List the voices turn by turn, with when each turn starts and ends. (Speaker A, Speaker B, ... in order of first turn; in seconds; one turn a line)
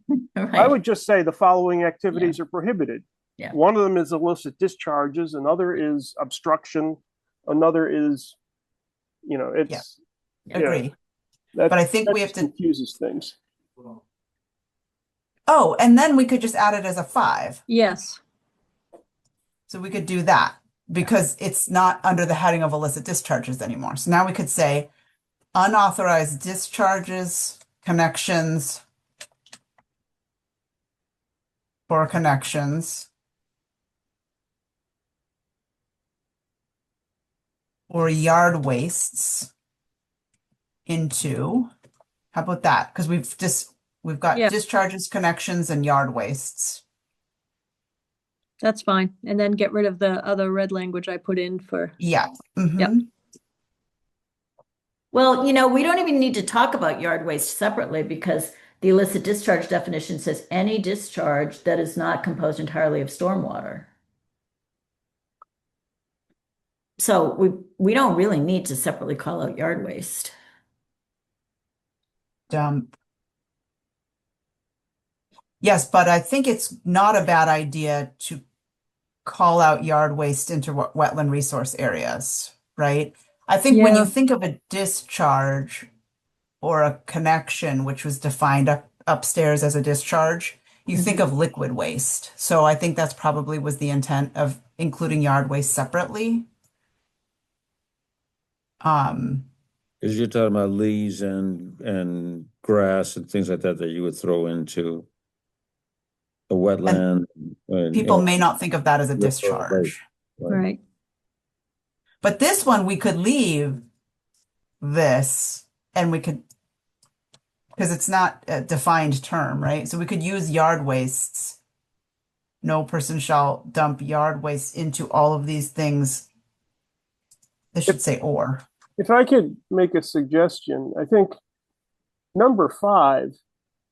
Speaker A: 0.3-0.7
Speaker B: 0.6-8.4
Speaker B: 9.2-10.0
Speaker C: 10.5-10.9
Speaker B: 10.5-10.8
Speaker B: 11.5-13.3
Speaker C: 11.7-12.5
Speaker C: 15.5-17.6
Speaker D: 17.7-18.2
Speaker C: 19.7-24.9
Speaker C: 25.5-28.8
Speaker C: 31.9-33.1
Speaker C: 37.9-39.5
Speaker C: 40.9-41.7
Speaker C: 42.3-46.8
Speaker D: 48.6-52.0
Speaker C: 52.0-53.1
Speaker A: 55.1-63.9
Speaker A: 67.0-70.3
Speaker C: 72.5-72.9
Speaker C: 75.6-78.4
Speaker C: 79.2-85.9
Speaker D: 83.7-84.1
Speaker C: 86.6-96.5
Speaker C: 98.8-99.5
Speaker E: 100.0-105.1
Speaker E: 106.5-108.3
Speaker C: 107.9-110.0
Speaker E: 109.2-110.6
Speaker D: 110.5-110.8
Speaker C: 112.2-113.8
Speaker C: 114.8-116.4
Speaker C: 117.8-121.6
Speaker C: 122.6-126.3
Speaker C: 127.7-128.6
Speaker B: 129.0-131.3
Speaker B: 132.3-133.4